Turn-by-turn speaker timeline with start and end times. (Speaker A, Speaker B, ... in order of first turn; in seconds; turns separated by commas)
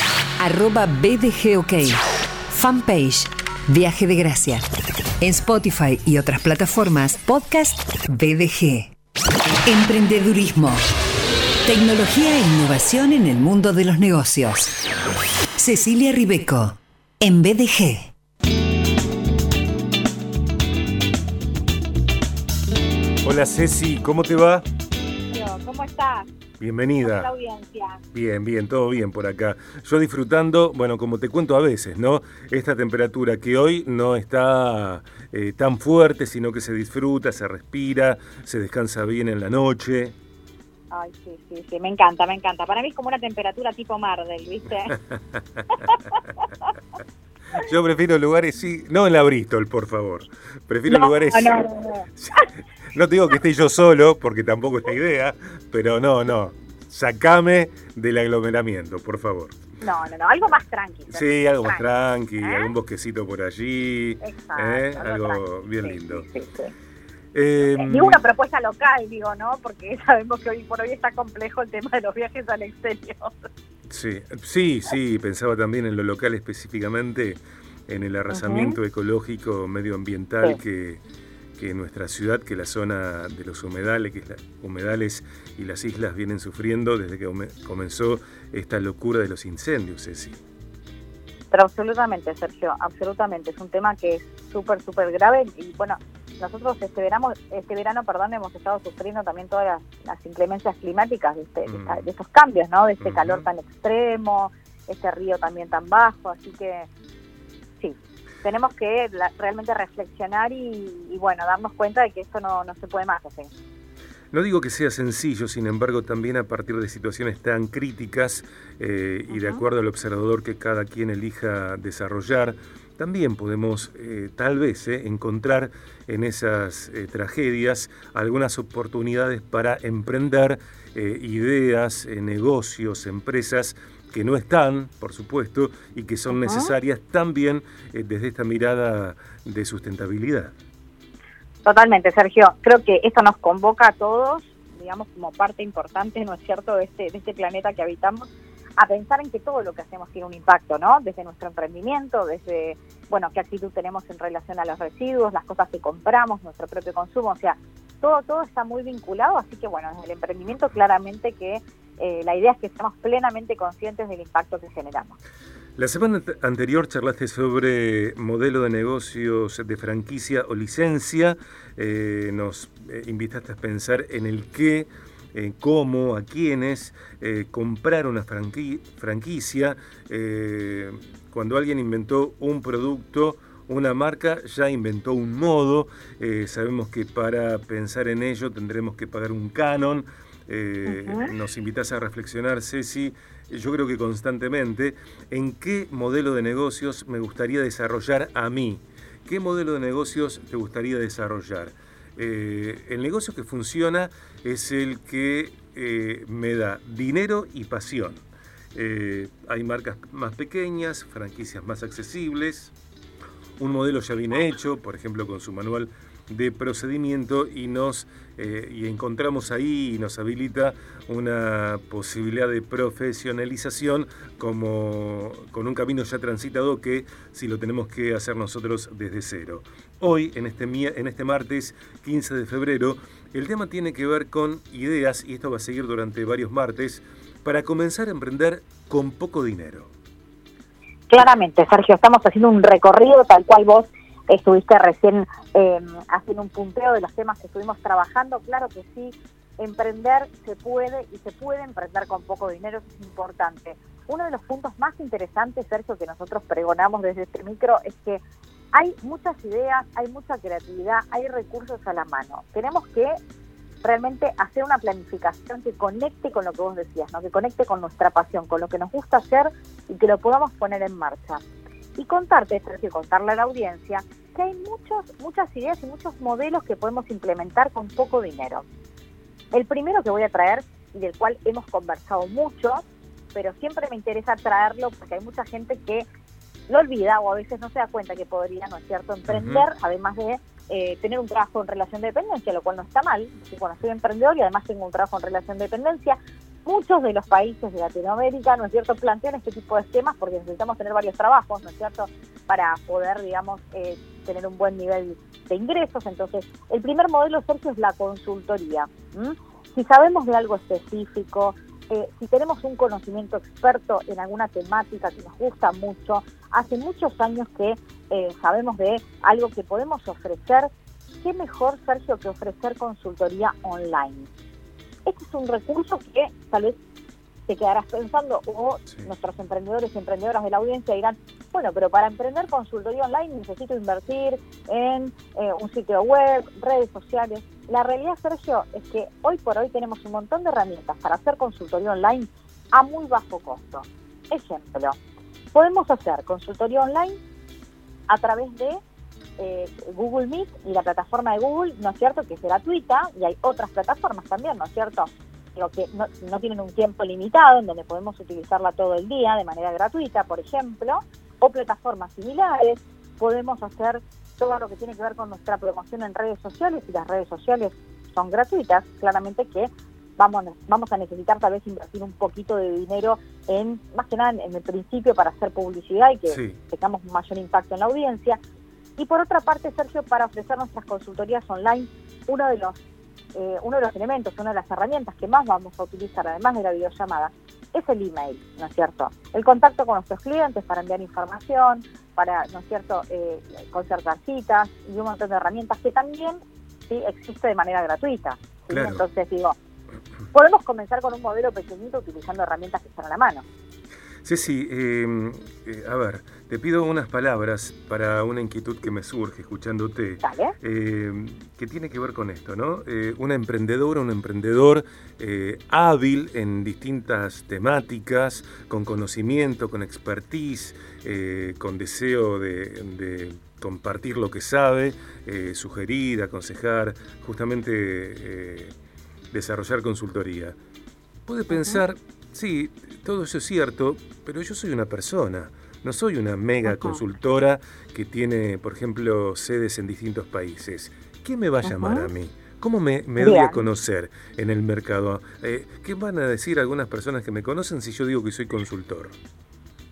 Speaker A: 0.4-4.7, Speaker A: 5.2-8.9, Speaker A: 9.6-10.8, Speaker A: 11.6-14.7, Speaker A: 15.6-18.1, Speaker B: 23.2-24.6, Speaker C: 25.3-26.3, Speaker B: 26.6-27.3, Speaker C: 27.0-28.0, Speaker B: 28.1-40.1, Speaker C: 40.9-45.0, Speaker C: 45.7-46.5, Speaker B: 47.6-59.6, Speaker C: 50.9-52.5, Speaker C: 59.8-61.8, Speaker B: 61.1-66.2, Speaker C: 62.4-62.7, Speaker C: 64.2-66.7, Speaker B: 67.3-68.2, Speaker C: 67.7-73.5, Speaker B: 73.9-81.0, Speaker C: 78.3-78.8, Speaker B: 81.5-90.4, Speaker C: 91.5-106.9, Speaker B: 101.6-102.1, Speaker B: 103.0-103.5, Speaker C: 107.8-113.5, Speaker B: 114.3-140.5, Speaker C: 119.3-119.6, Speaker C: 136.3-136.7, Speaker C: 141.6-165.2, Speaker B: 165.8-212.7, Speaker C: 190.9-191.3, Speaker B: 213.6-239.9, Speaker C: 241.1-263.2, Speaker C: 263.8-271.4, Speaker C: 271.9-278.6, Speaker C: 279.5-286.1, Speaker C: 286.7-324.3, Speaker B: 289.3-289.7, Speaker C: 325.0-326.8, Speaker C: 327.5-345.0, Speaker C: 345.5-347.2, Speaker C: 348.1-348.8, Speaker C: 349.4-378.4, Speaker B: 376.3-376.6, Speaker C: 379.0-382.8, Speaker C: 383.3-399.5, Speaker B: 398.7-399.0, Speaker C: 400.3-403.4, Speaker B: 404.2-428.8, Speaker C: 410.2-410.5, Speaker B: 429.3-430.6, Speaker B: 431.2-449.1, Speaker C: 431.5-431.8, Speaker C: 436.6-437.0, Speaker C: 441.6-442.1, Speaker C: 443.2-443.6